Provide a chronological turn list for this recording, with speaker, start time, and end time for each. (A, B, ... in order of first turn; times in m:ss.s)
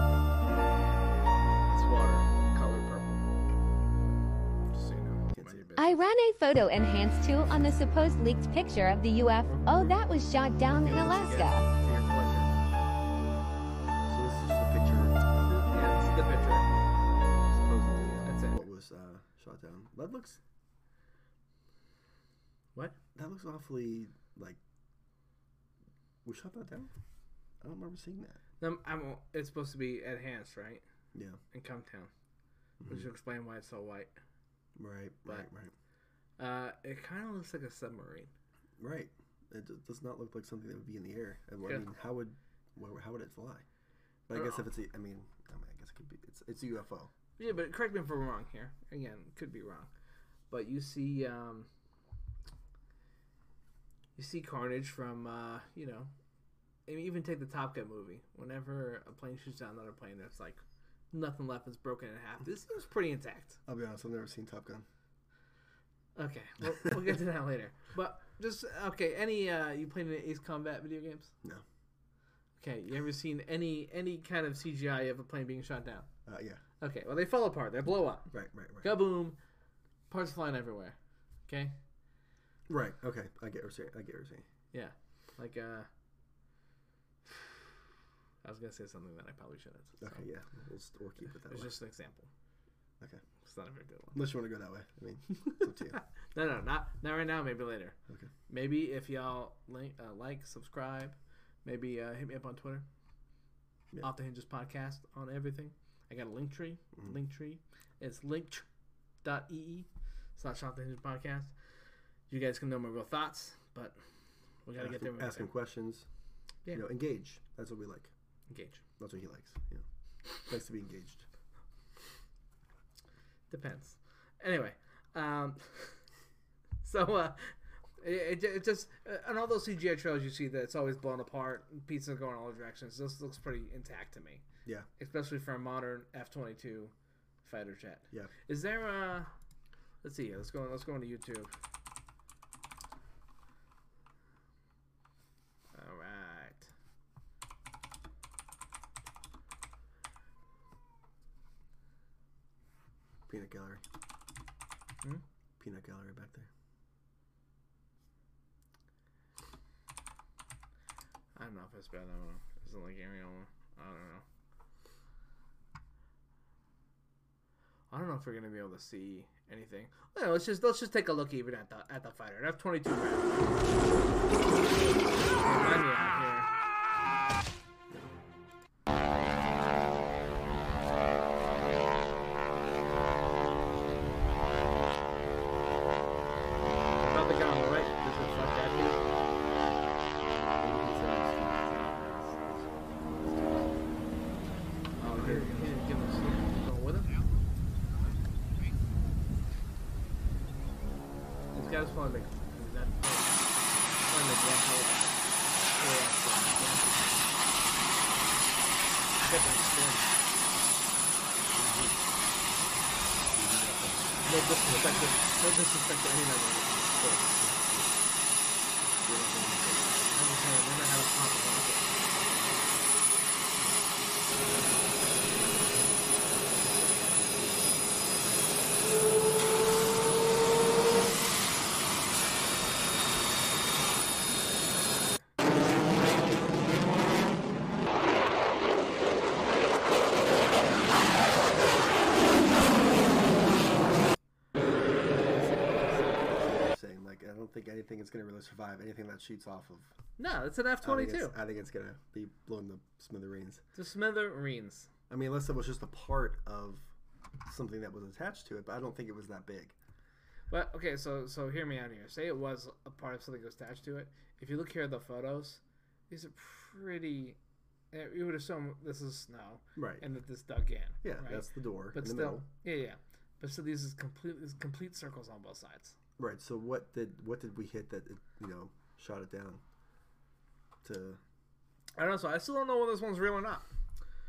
0:01.7-0:03.2 A
0:04.7-0:06.1 A
0:05.3-0:05.6 B
0:05.8-0:11.6 C
0:09.4-0:12.5 A
0:14.1-0:15.3 B
0:15.5-0:16.7 A
0:17.4-0:20.4 B
0:18.2-0:18.6 A
0:23.1-0:24.6 B
0:26.2-0:26.9 B
0:27.6-0:28.4 B
0:28.6-0:30.8 A
0:31.1-0:31.4 B
0:31.5-0:32.1 A
0:32.8-0:33.1 B
0:32.8-0:34.2 A
0:34.8-0:35.7 B
0:36.4-0:38.3 A
0:38.8-0:43.6 B
0:44.3-0:47.1 B
0:44.3-0:44.6 A
0:47.4-0:49.9 A
0:50.5-0:51.7 A
0:54.2-0:56.1 A
0:56.9-1:00.6 A
1:01.1-1:03.6 A
1:03.7-1:04.9 B
1:06.2-1:11.3 A
1:12.6-1:16.1 A
1:16.2-1:16.6 B
1:16.8-1:19.4 A
1:18.3-1:19.0 B
1:20.1-1:21.8 A
1:22.7-1:24.4 B
1:24.7-1:25.9 A
1:28.4-1:30.2 A
1:30.0-1:31.7 B
1:31.4-1:32.3 A
1:33.4-1:34.2 A
1:34.1-1:36.0 B
1:35.4-1:38.0 A
1:38.5-1:42.8 A
1:44.0-1:48.6 A
1:49.2-1:51.5 A
1:52.3-1:54.0 A
1:54.6-1:55.5 A
1:54.8-1:56.1 B
1:56.7-1:58.1 B
1:58.5-1:58.8 A
1:59.0-1:59.8 B
2:00.4-2:01.2 B
2:03.5-2:06.0 A
2:06.8-2:14.4 A
2:15.0-2:16.9 A
2:17.4-2:19.3 A
2:20.0-2:21.5 A
2:25.7-2:26.7 A
2:33.3-2:33.8 B
2:35.6-2:36.5 B
2:41.4-2:44.2 A
2:47.9-2:53.7 A
2:54.8-2:56.5 A
3:07.0-3:09.0 A
3:10.5-3:14.3 B
3:15.0-3:15.8 B
3:15.0-3:17.1 A
3:21.5-3:23.5 A
3:24.0-3:25.2 A
3:25.7-3:27.3 A
3:29.2-3:30.2 A
3:31.5-3:32.0 B
3:33.3-3:34.1 B
3:34.2-3:37.4 A
3:37.4-3:37.9 B
3:39.0-3:40.0 B
3:40.1-3:42.2 A
4:04.7-4:09.9 B
4:10.2-4:11.4 A
4:10.8-4:13.6 B
4:13.7-4:14.9 A
4:15.1-4:16.9 B
4:17.4-4:19.7 B
4:20.5-4:27.4 A
4:27.9-4:36.0 A
4:29.8-4:30.0 B
4:31.0-4:32.4 B
4:36.2-4:39.6 B
4:40.8-4:41.2 B
4:42.0-4:43.7 A